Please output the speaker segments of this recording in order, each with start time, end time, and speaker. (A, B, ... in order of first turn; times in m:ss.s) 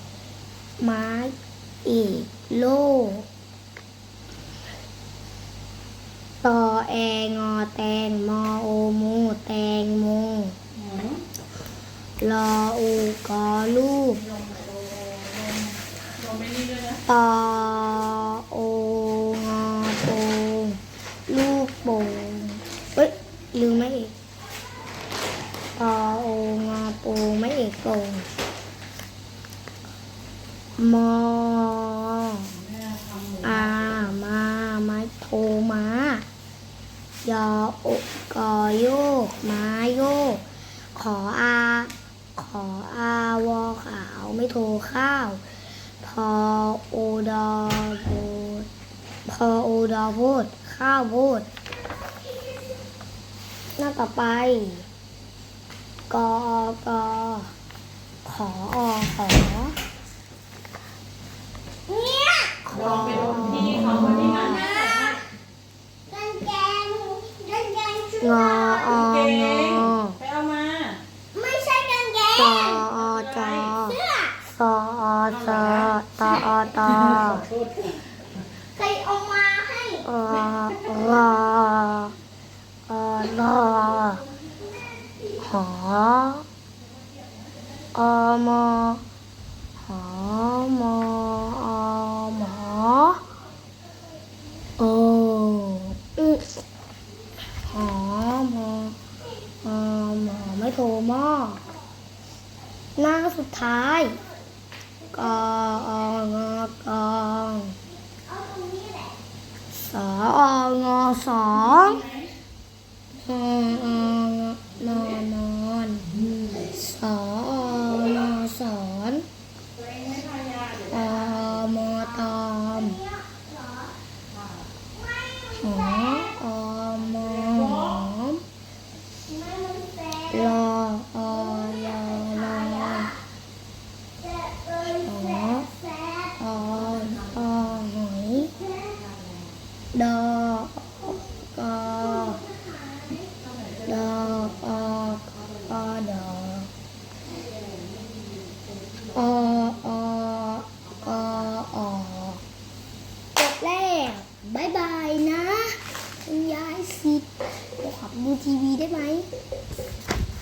0:00.8-0:03.3 A
0:06.4-0:10.6 A
0:10.8-0:11.2 B
0:12.2-0:14.3 A
0:14.4-0:15.7 B
0:16.2-0:17.0 B
0:17.0-0:24.2 A
0:25.8-0:28.3 A
0:30.8-0:32.6 A
0:32.8-0:33.4 B
0:33.4-0:36.3 A
0:37.2-0:45.4 A
0:46.0-0:48.7 A
0:49.3-0:51.5 A
0:53.8-0:54.9 A
0:56.1-0:57.5 A
0:58.2-0:59.8 A
1:01.9-1:03.5 C
1:02.7-1:04.6 A
1:03.7-1:04.3 B
1:04.1-1:05.2 C
1:06.1-1:09.0 C
1:08.2-1:10.2 A
1:09.1-1:11.0 B
1:11.3-1:12.9 C
1:12.4-1:17.5 A
1:13.8-1:14.4 C
1:18.7-1:20.0 C
1:20.0-1:22.2 A
1:22.9-1:24.2 A
1:25.4-1:26.5 A
1:27.9-1:29.0 A
1:29.8-1:33.3 A
1:34.8-1:36.6 A
1:37.6-1:39.0 A
1:39.6-1:41.6 A
1:43.0-1:44.2 A
1:45.1-1:47.8 A
1:48.1-1:49.2 C
1:49.7-1:52.1 A
1:53.2-1:59.3 A
1:59.8-2:00.9 B
2:00.8-2:03.0 A
2:02.7-2:04.0 C
2:04.8-2:06.3 C
2:05.6-2:08.4 A
2:09.0-2:10.5 C
2:10.3-2:13.2 A
2:11.8-2:13.2 C
2:14.2-2:16.4 C
2:15.0-2:15.7 A
2:16.4-2:18.6 A
2:18.6-2:19.1 C
2:19.9-2:22.5 A
2:22.2-2:23.3 C
2:23.8-2:26.7 A
2:29.1-2:32.4 A
2:33.4-2:39.3 A